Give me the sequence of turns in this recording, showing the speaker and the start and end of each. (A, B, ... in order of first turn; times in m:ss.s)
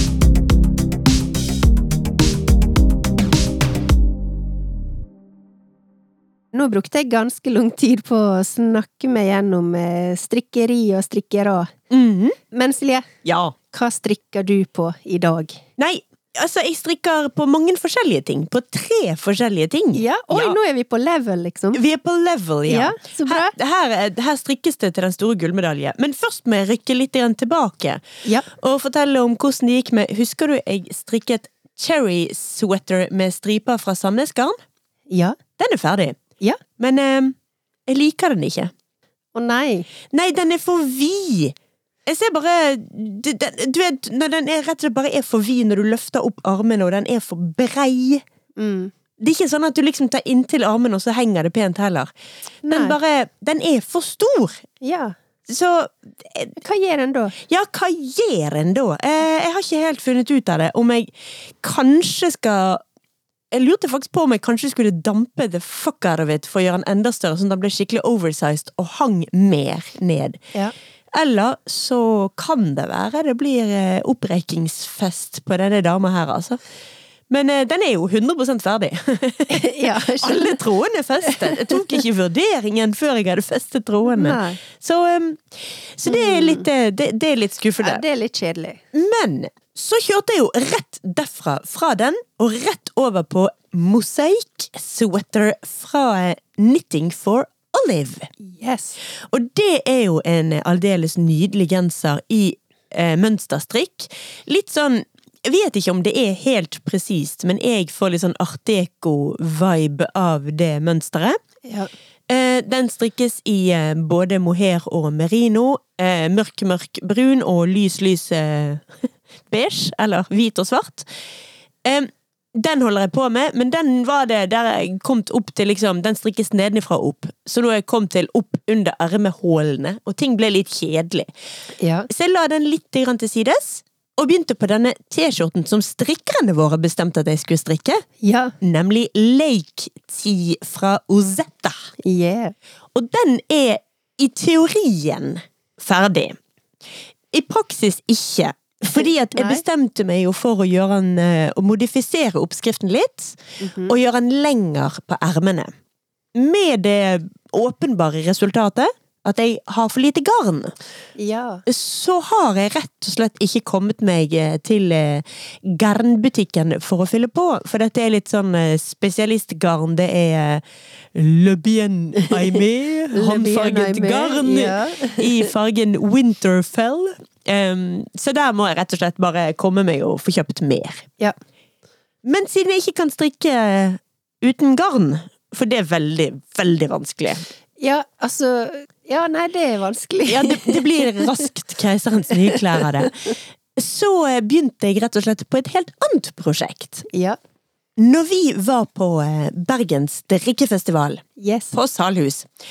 0:06.5-0:11.7 A
0:11.9-0:12.4 B
0:12.5-0:13.1 A
0:13.2-0:13.6 B
0:13.7-0:15.6 A
0:15.8-0:20.6 B
0:19.9-0:21.8 A
0:21.7-0:34.6 B
0:22.7-0:23.5 A
0:35.1-0:35.4 A
0:35.6-0:36.2 B
0:36.8-0:37.4 B
0:37.9-0:38.7 B
0:39.4-0:39.9 A
0:40.1-0:48.2 B
0:48.6-0:48.9 A
0:49.2-0:52.1 B
0:52.7-0:53.0 A
0:52.7-0:54.6 B
0:54.8-0:55.1 A
0:55.5-0:56.5 B
0:56.6-0:57.4 A
0:57.4-1:02.8 B
1:03.5-1:10.4 B
1:11.1-1:16.6 B
1:17.3-1:28.0 B
1:19.5-1:20.6 A
1:24.1-1:24.6 A
1:26.1-1:26.7 A
1:27.8-1:28.8 A
1:28.9-1:38.3 B
1:38.4-1:39.0 A
1:39.3-1:51.4 B
1:51.7-1:51.9 A
1:52.3-1:59.0 B
1:59.5-2:01.1 B
2:01.8-2:11.3 B
2:11.8-2:12.1 A
2:12.1-2:18.0 B
2:18.2-2:18.5 A
2:18.6-2:21.8 B
2:22.0-2:22.5 A
2:23.0-2:26.4 B
2:27.3-2:35.7 B
2:29.3-2:29.6 A
2:33.6-2:33.9 A
2:36.3-2:40.7 B
2:41.2-2:41.6 A
2:41.7-3:01.1 B
2:53.1-2:55.5 A
3:02.2-3:07.4 B
3:07.8-3:11.2 A
3:10.3-3:17.1 B
3:12.6-3:13.1 A
3:17.1-3:17.4 A
3:18.0-3:22.5 B
3:21.4-3:21.7 A